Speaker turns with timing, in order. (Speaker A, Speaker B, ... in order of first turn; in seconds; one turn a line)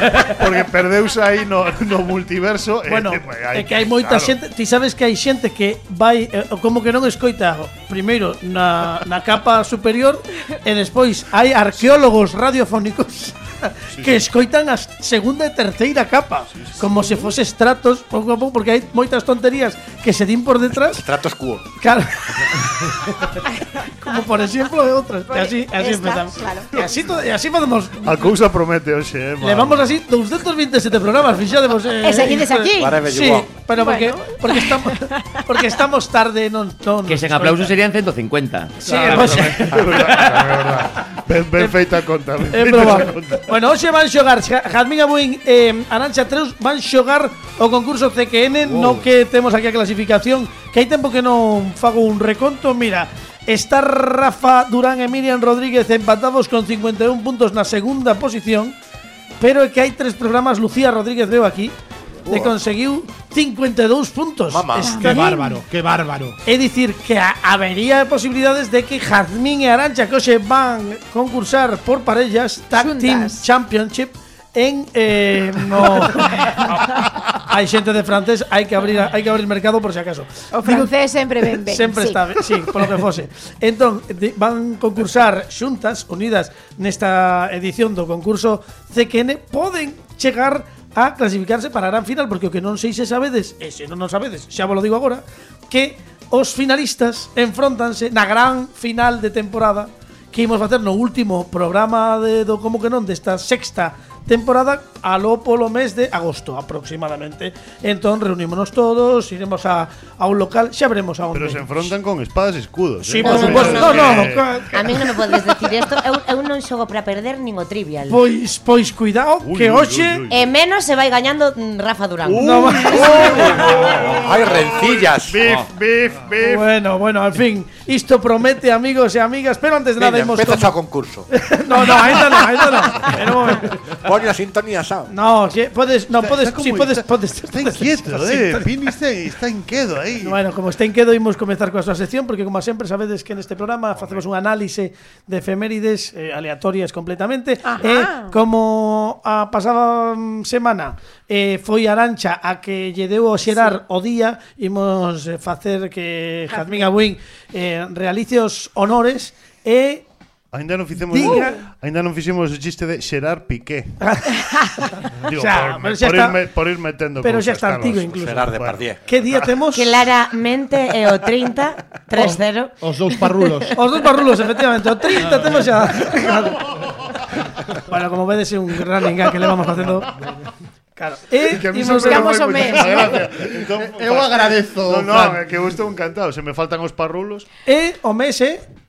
Speaker A: 0.2-4.3
Speaker B: 2.9-21.0
Speaker A: 13.9-14.2
Speaker A: 16.5-17.3
Speaker C: 20.7-21.7
Speaker B: 21.8-28.2
Speaker D: 23.6-24.3
Speaker D: 25.3-26.9
Speaker A: 28.0-29.9
Speaker B: 29.4-37.7
Speaker D: 32.0-33.0
Speaker C: 32.8-33.5
Speaker D: 33.7-35.4
Speaker E: 37.1-40.4
Speaker B: 38.8-39.9
Speaker A: 38.9-43.5
Speaker B: 42.5-58.8
Speaker B: 59.4-61.7
Speaker B: 62.2-65.6
Speaker C: 62.3-62.5
Speaker C: 64.5-65.0
Speaker D: 64.8-65.3
Speaker F: 65.0-66.4
Speaker B: 66.5-80.9
Speaker D: 72.7-73.5
Speaker D: 76.1-76.9
Speaker D: 80.5-82.4
Speaker B: 81.5-111.9
Speaker A: 111.3-114.5
Speaker B: 113.0-115.6
Speaker G: 113.2-118.2
Speaker B: 118.1-120.2
Speaker A: 119.4-120.5
Speaker G: 120.3-123.4
Speaker A: 122.3-126.7
Speaker B: 122.3-124.1
Speaker C: 123.6-125.4
Speaker E: 125.4-125.7
Speaker B: 126.4-130.7
Speaker C: 130.0-131.3
Speaker B: 131.3-133.8
Speaker C: 133.9-135.1
Speaker B: 135.1-138.7
Speaker A: 136.2-140.4
Speaker B: 140.2-160.1
Speaker A: 144.0-144.2
Speaker D: 147.6-148.4
Speaker D: 156.5-156.9
Speaker A: 160.5-164.0
Speaker B: 161.1-161.6
Speaker D: 161.2-161.5
Speaker B: 164.0-166.4
Speaker A: 165.2-169.5
Speaker B: 167.2-168.5
Speaker C: 168.1-169.0
Speaker B: 169.1-169.9
Speaker G: 169.7-172.8
Speaker F: 172.1-173.8
Speaker B: 173.7-176.7
Speaker B: 177.8-180.1
Speaker B: 181.0-183.2
Speaker A: 181.4-187.5
Speaker D: 181.7-183.2
Speaker F: 183.3-185.5
Speaker B: 187.7-188.7